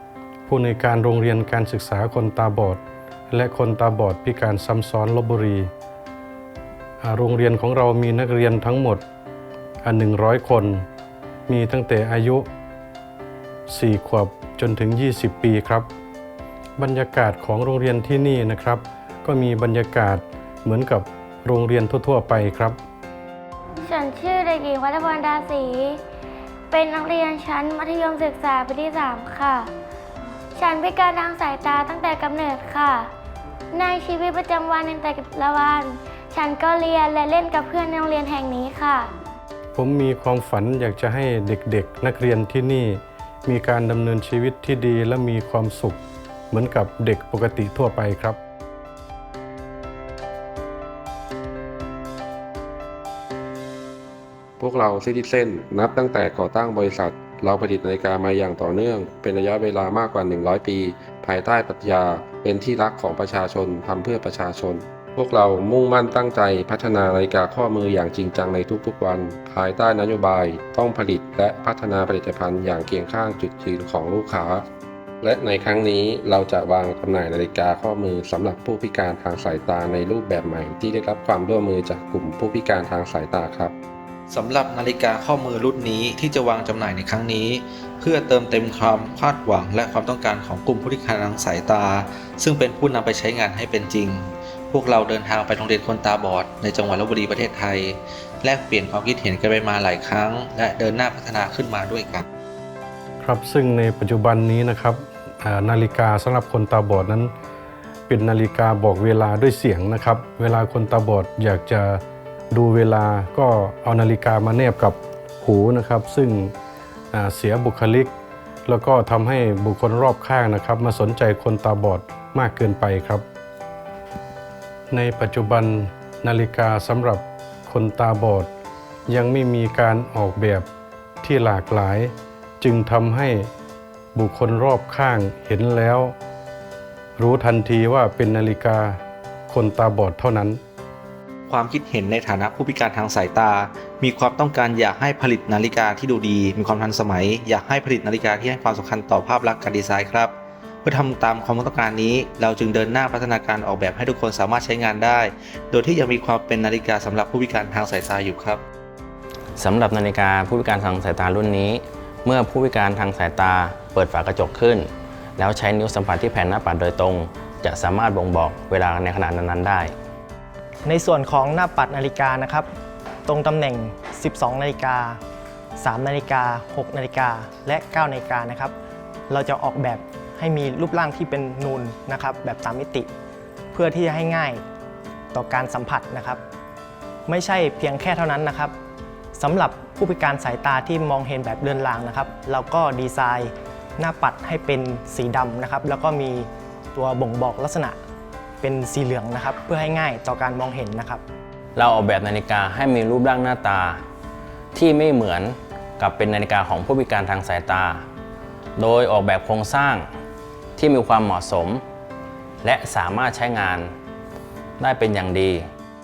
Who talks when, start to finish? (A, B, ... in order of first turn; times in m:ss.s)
0:00.5-0:05.7 A
0:07.0-0:09.0 A
0:09.8-0:10.8 A
0:11.5-0:12.5 A
0:13.7-0:15.9 A
0:16.8-0:22.8 A
0:23.8-0:26.0 B
0:26.7-0:29.7 B
0:30.5-0:33.1 B
0:33.7-0:39.1 B
0:39.7-0:48.4 A
0:54.6-1:14.6 C
1:15.2-1:23.7 C
1:24.3-1:42.2 D
1:43.2-1:47.3 A
1:48.1-1:56.5 A
1:57.1-1:58.1 A
1:58.7-2:03.2 A
2:04.9-2:08.5 A
2:09.1-2:10.7 A
2:11.2-2:13.5 A
2:14.1-2:16.2 A
2:17.2-2:20.6 A
2:21.5-2:38.6 D
2:39.6-2:49.9 E
2:50.8-2:52.7 F
2:53.2-2:55.2 F
2:55.8-2:58.7 F
2:59.3-3:03.1 F
3:03.7-3:04.6 F
3:05.3-3:06.4 F
3:07.3-3:08.7 F
3:09.3-3:18.0 F
3:18.6-3:21.2 F
3:21.8-3:24.0 E
3:24.7-3:28.0 E
3:28.8-3:30.1 E
3:30.8-3:31.8 E
3:32.6-3:33.9 E
3:34.8-3:35.6 E